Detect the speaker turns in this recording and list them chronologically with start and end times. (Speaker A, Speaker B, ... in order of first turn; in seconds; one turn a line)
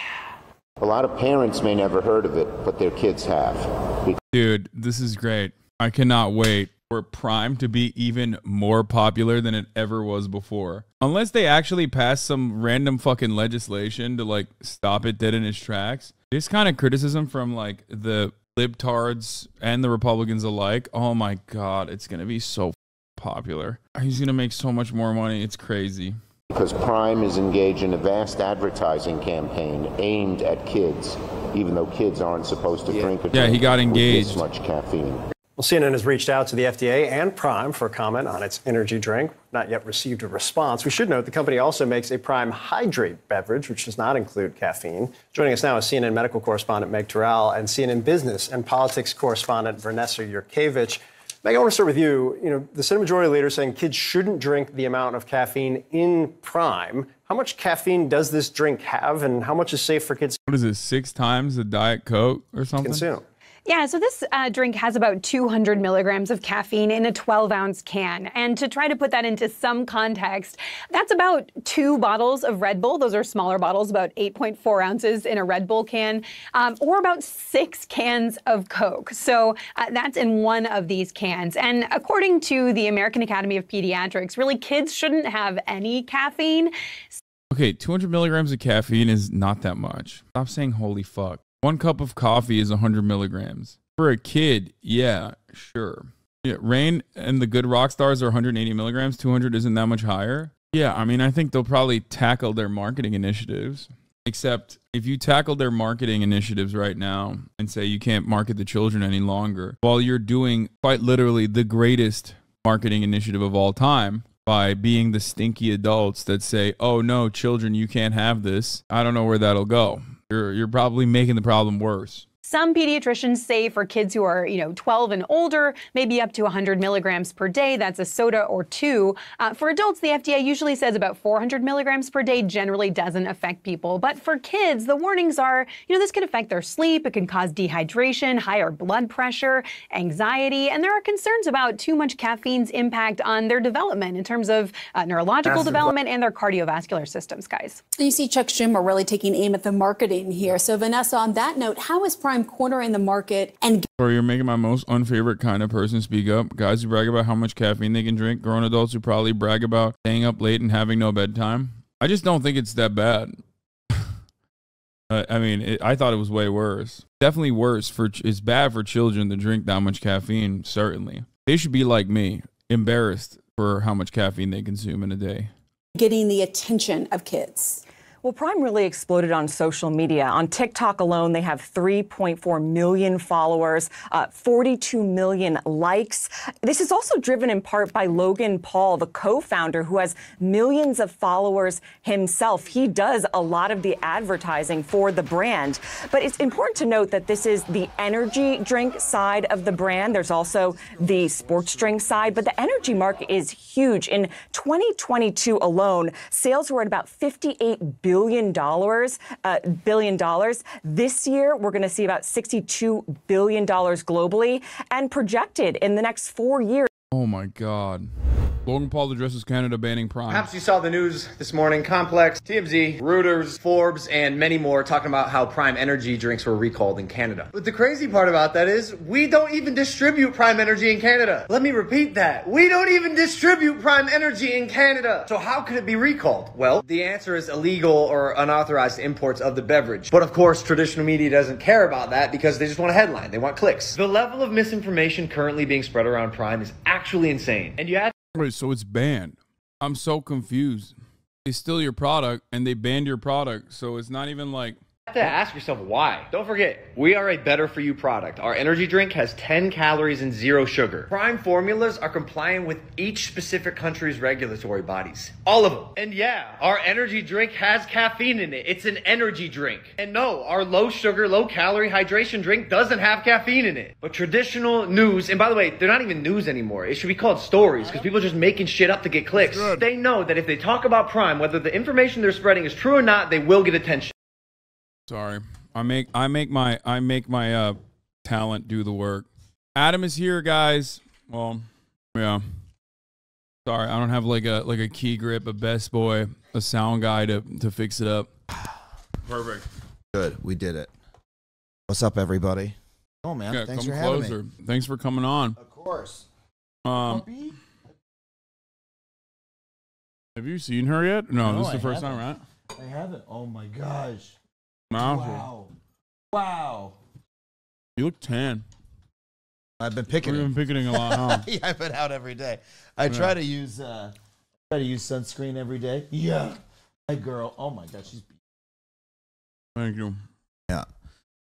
Speaker A: 0.8-4.2
Speaker B: 4.3-26.1
Speaker A: 26.5-35.2
Speaker B: 33.3-34.4
Speaker C: 35.6-60.4
Speaker B: 60.5-63.1
Speaker C: 62.8-63.2
Speaker D: 63.6-87.2
Speaker B: 87.5-122.2
Speaker D: 122.4-147.8
Speaker E: 145.4-145.9
Speaker F: 148.0-153.8
Speaker B: 154.0-163.3
Speaker B: 165.1-175.5
Speaker F: 175.9-177.8
Speaker G: 178.2-216.9
Speaker B: 217.1-218.1
Speaker B: 218.6-220.5
Speaker E: 220.3-248.1
Speaker B: 248.3-250.9
Speaker B: 251.4-254.8
Speaker E: 255.1-284.1
Speaker H: 277.8-278.1
Speaker B: 279.3-279.8
Speaker B: 285.1-292.4
Speaker B: 293.6-298.3
Speaker B: 299.2-299.6
Speaker H: 300.1-300.9
Speaker H: 301.9-304.4
Speaker B: 303.5-305.6
Speaker H: 305.6-306.3
Speaker B: 306.8-307.2
Speaker H: 306.9-307.6
Speaker B: 310.4-312.4
Speaker H: 311.4-314.3
Speaker B: 314.9-315.5
Speaker H: 314.9-315.7
Speaker H: 316.3-316.9
Speaker B: 318.0-318.6
Speaker H: 319.8-324.1
Speaker B: 320.2-321.5
Speaker B: 323.1-323.3
Speaker H: 324.7-328.3
Speaker B: 329.8-330.2